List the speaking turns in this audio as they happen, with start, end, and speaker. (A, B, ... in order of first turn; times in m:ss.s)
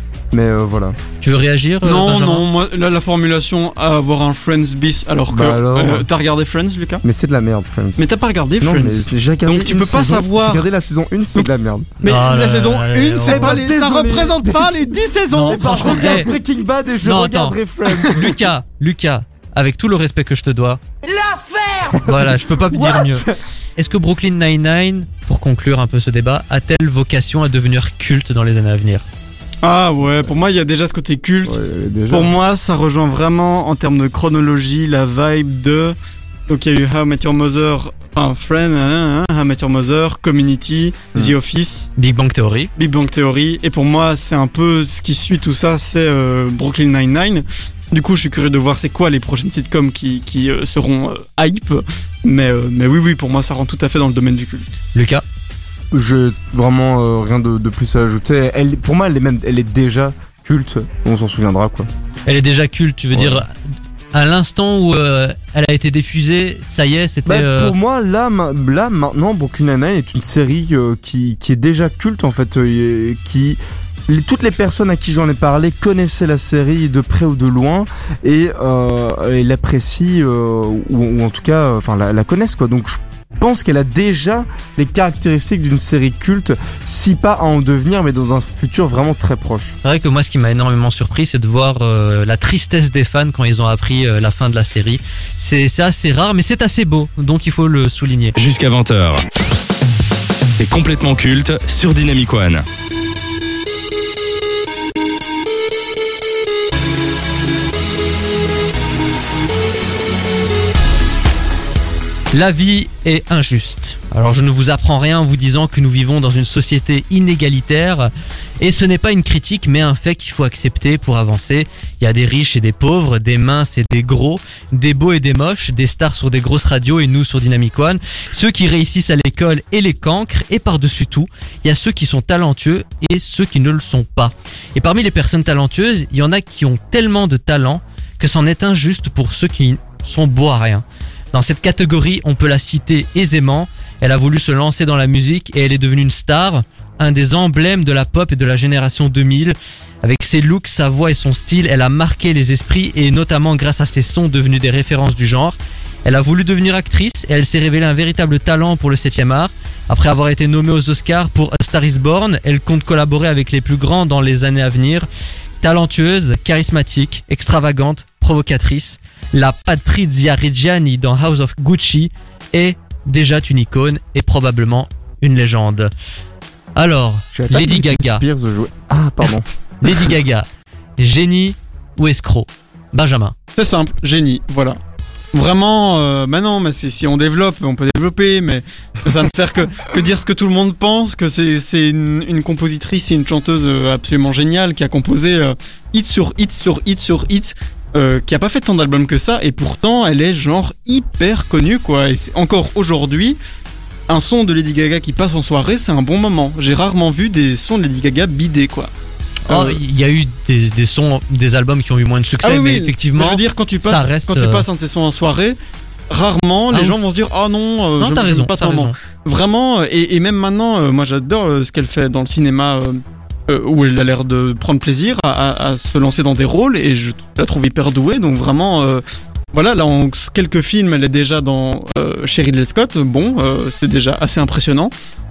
0:00.3-0:01.0 A
0:01.2-0:02.4 B
0:01.8-0:07.0 C
0:05.3-0:06.1 A
0:07.0-0:08.0 A
0:08.0-0:10.7 C
0:08.6-0:12.0 A
0:12.0-0:16.3 C
0:12.0-0:13.6 B
0:13.2-0:14.8 A
0:15.3-0:16.3 B
0:15.4-0:18.4 A
0:17.0-0:20.8 B
0:21.0-0:23.4 A
0:22.0-0:23.2 B
0:23.8-0:29.0 B
0:29.6-0:31.6 C
0:31.4-0:32.3 A
0:32.1-0:36.0 C
0:36.5-0:41.9 C
0:42.0-0:42.7 B
0:42.8-0:54.7 C
0:54.9-0:55.2 B
0:55.9-1:01.9 A
1:02.3-1:03.5 B
1:03.1-1:03.4 A
1:04.1-1:07.8 B
1:07.3-1:29.8 A
1:29.8-1:38.4 B
1:38.4-1:39.2 D
1:40.5-1:42.6 D
1:52.3-2:45.1 B
2:45.6-2:55.9 B
2:56.8-2:58.2 B
2:57.3-2:59.4 A
2:59.8-3:00.5 B
3:01.0-3:03.4 B
3:03.6-3:04.8 C
3:05.3-3:23.4 C
3:24.1-3:28.9 C
3:29.5-3:34.6 B
3:29.5-3:29.8 C
3:32.4-3:35.6 C
3:36.1-3:54.9 C
3:36.7-3:37.0 B
3:38.0-3:39.0 B